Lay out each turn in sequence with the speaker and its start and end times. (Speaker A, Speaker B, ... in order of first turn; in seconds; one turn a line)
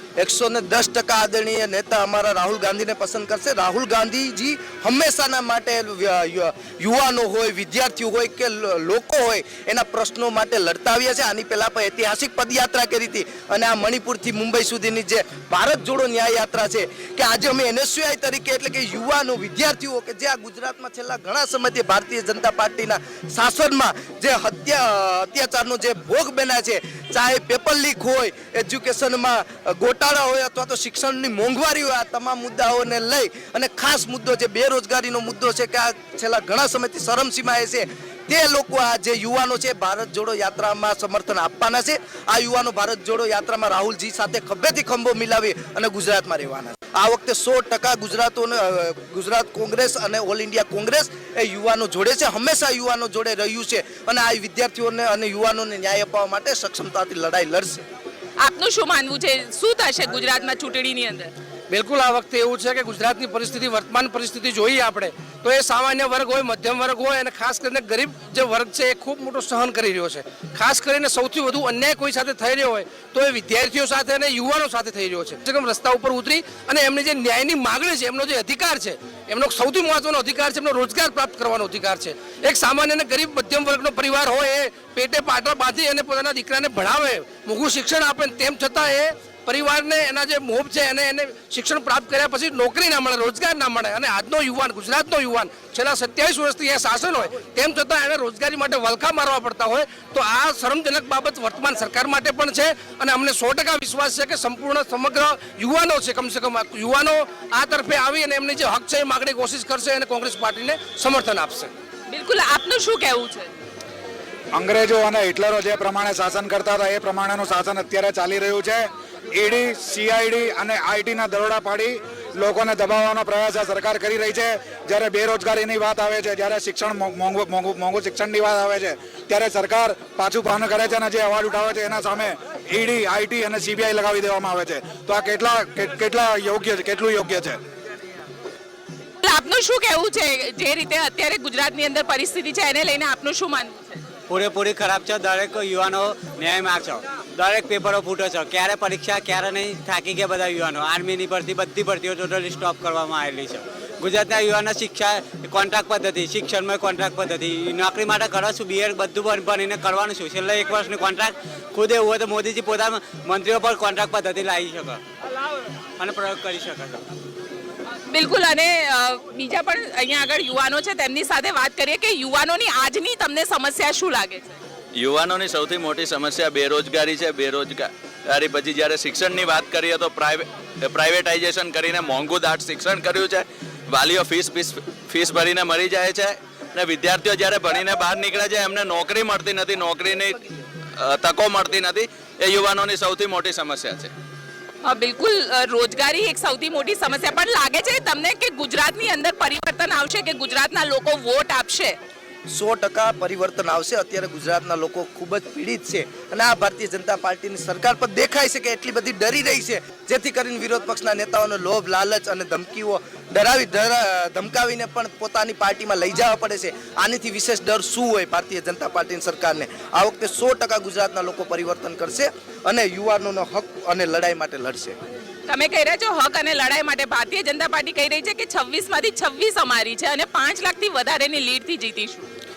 Speaker A: 0.2-57.8
Speaker B: 58.4-61.3
Speaker C: 61.7-111.7
Speaker B: 112.1-113.5
Speaker D: 114.5-137.6
Speaker B: 139.2-144.0
Speaker E: 144.3-165.0
Speaker E: 166.0-167.0
Speaker B: 168.1-174.6
Speaker F: 175.0-190.4
Speaker F: 191.0-194.1
Speaker B: 194.8-201.9
Speaker A: 202.5-224.9
Speaker B: 225.5-232.3